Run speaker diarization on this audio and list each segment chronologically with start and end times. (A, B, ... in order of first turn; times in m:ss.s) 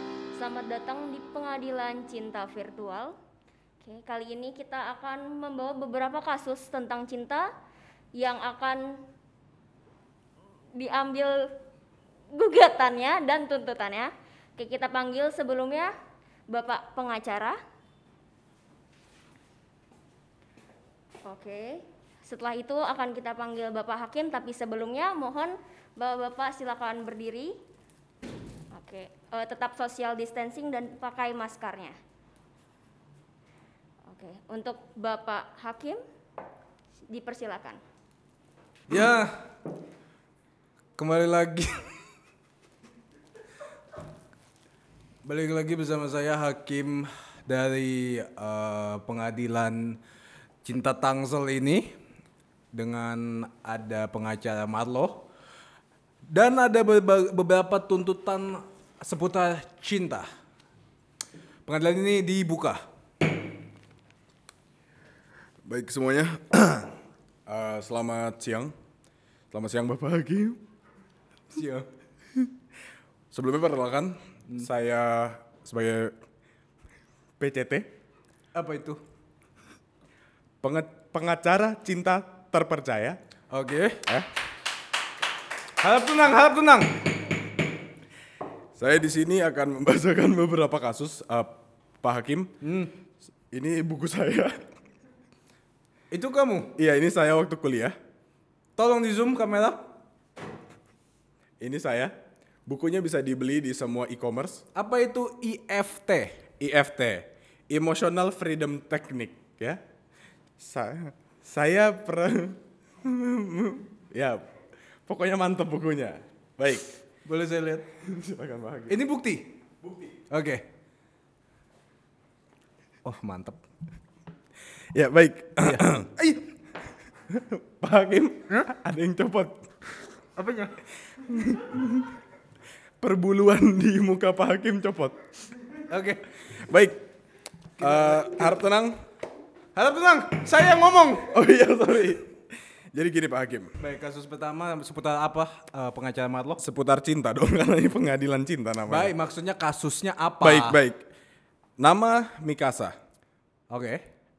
0:00.3-0:03.1 A
0:03.8-0:07.5 A
0:08.1-0:09.0 A
0:10.8-0:11.5 A
0:12.3-0:15.9 A
0:16.5-0:17.6 A
0:21.2-0:27.5 A
0:28.7-0:32.0 A
0:34.1-0:36.0 A
0:37.1-0:37.8 A
0:38.9-0:39.4 B
0:41.0-0:41.8 B
0:45.2-0:50.0 B
0:50.6-0:51.9 B
0:52.7-0:55.3 B
0:56.3-1:00.3 B
1:01.6-1:02.8 B
1:05.6-1:06.9 C
1:07.5-1:08.7 C
1:09.5-1:10.6 C
1:11.5-1:11.9 B
1:13.3-1:16.2 C
1:17.4-1:17.9 C
1:18.5-1:19.0 B
1:20.6-1:23.2 C
1:23.5-1:24.0 B
1:25.8-1:26.9 B
1:28.8-1:32.5 C
1:32.6-1:32.9 B
1:33.5-1:34.6 C
1:36.1-1:36.8 B
1:36.8-1:38.0 C
1:38.8-1:39.8 B
1:41.6-1:42.1 C
1:42.6-1:44.6 C
1:44.7-1:46.4 B
1:46.6-1:49.8 C
1:50.6-1:54.5 C
1:55.1-1:56.9 C
1:57.2-1:57.9 B
1:58.0-1:59.0 C
1:58.9-1:59.5 B
2:00.3-2:00.7 B
2:03.0-2:03.6 B
2:04.9-2:06.1 C
2:05.6-2:06.4 B
2:07.3-2:09.7 C
2:10.4-2:10.7 B
2:11.2-2:12.1 C
2:13.0-2:15.2 C
2:15.9-2:16.2 B
2:16.5-2:17.0 C
2:17.8-2:19.0 C
2:17.8-2:18.6 B
2:19.7-2:21.3 B
2:21.2-2:22.3 C
2:22.9-2:23.7 C
2:23.8-2:26.6 B
2:26.6-2:29.1 C
2:28.9-2:30.8 B
2:30.4-2:31.0 C
2:31.8-2:33.0 C
2:33.7-2:34.0 B